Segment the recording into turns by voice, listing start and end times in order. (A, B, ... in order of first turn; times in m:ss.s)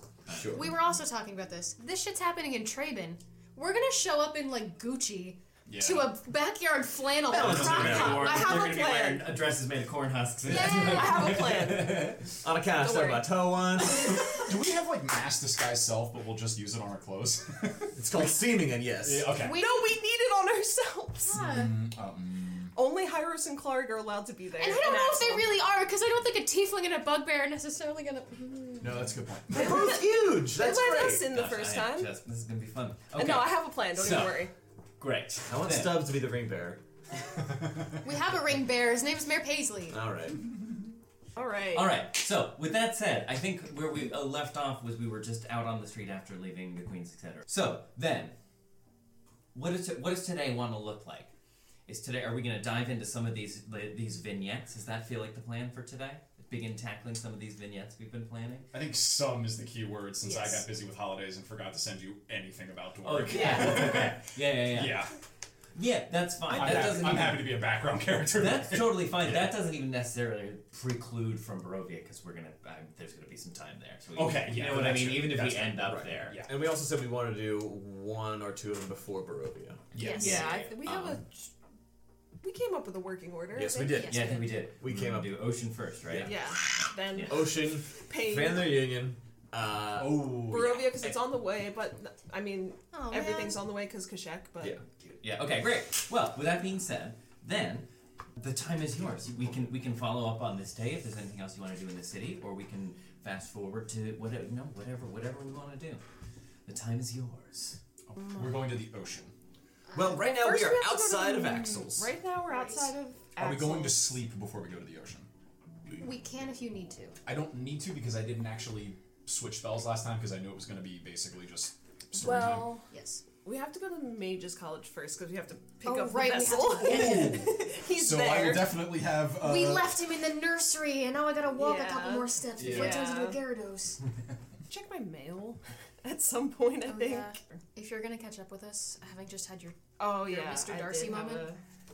0:00.2-0:00.7 A
0:00.3-0:00.7 B
0:00.4-0:08.6 C
0:05.7-0:06.2 D
0:07.3-0:12.2 A
0:07.3-0:08.3 B
0:07.9-0:09.3 E
0:10.5-0:11.4 C
0:10.5-0:13.3 E
0:12.3-0:14.1 B
0:13.9-0:18.2 D
0:17.9-0:19.3 B
0:19.0-0:19.6 D
0:19.4-0:21.4 E
0:19.4-0:19.8 C
0:21.2-0:21.8 C
0:21.3-0:22.7 D
0:22.7-0:25.5 E
0:24.6-0:29.1 C
0:28.8-0:29.8 D
0:29.5-0:31.3 B
0:29.5-0:32.1 E
0:31.3-0:36.0 A
0:33.2-0:34.5 E
0:35.4-0:36.8 B
0:37.5-0:38.0 D
0:38.0-0:40.0 C
0:39.9-0:40.5 B
0:41.3-0:41.9 E
0:41.7-0:48.4 A
0:49.5-0:51.3 A
0:51.9-0:58.7 A
0:58.7-1:05.1 D
1:00.2-1:00.6 E
1:03.0-1:05.1 A
1:03.3-1:04.0 E
1:05.7-1:07.6 A
1:06.5-1:09.2 D
1:06.6-1:07.0 E
1:08.3-1:16.4 A
1:09.2-1:09.5 B
1:14.1-1:16.5 D
1:15.8-1:19.9 B
1:19.9-1:20.6 D
1:20.0-1:20.3 C
1:20.0-1:21.2 A
1:20.1-1:21.5 E
1:22.4-1:24.5 E
1:23.5-1:25.3 B
1:23.9-1:24.2 C
1:24.1-1:27.4 A
1:26.0-1:26.3 B
1:26.2-1:28.8 E
1:27.2-1:30.6 B
1:30.0-1:30.8 D
1:30.5-1:34.8 E
1:32.9-1:33.6 C
1:35.0-1:46.0 A
1:46.6-1:47.8 A
1:48.1-1:49.3 D
1:48.2-1:48.7 E
1:49.9-1:52.1 B
1:50.1-1:54.1 E
1:52.5-1:52.9 C
1:53.4-1:55.3 D
1:56.0-1:57.2 C
1:57.2-2:02.8 D
2:02.2-2:03.2 C
2:02.2-2:02.8 E
2:03.4-2:09.0 E
2:05.8-2:07.5 C
2:06.8-2:10.0 D
2:09.3-2:14.0 C
2:11.5-2:13.4 E
2:12.6-2:13.0 D
2:14.7-2:17.5 E
2:16.8-2:21.5 C
2:20.0-2:21.6 E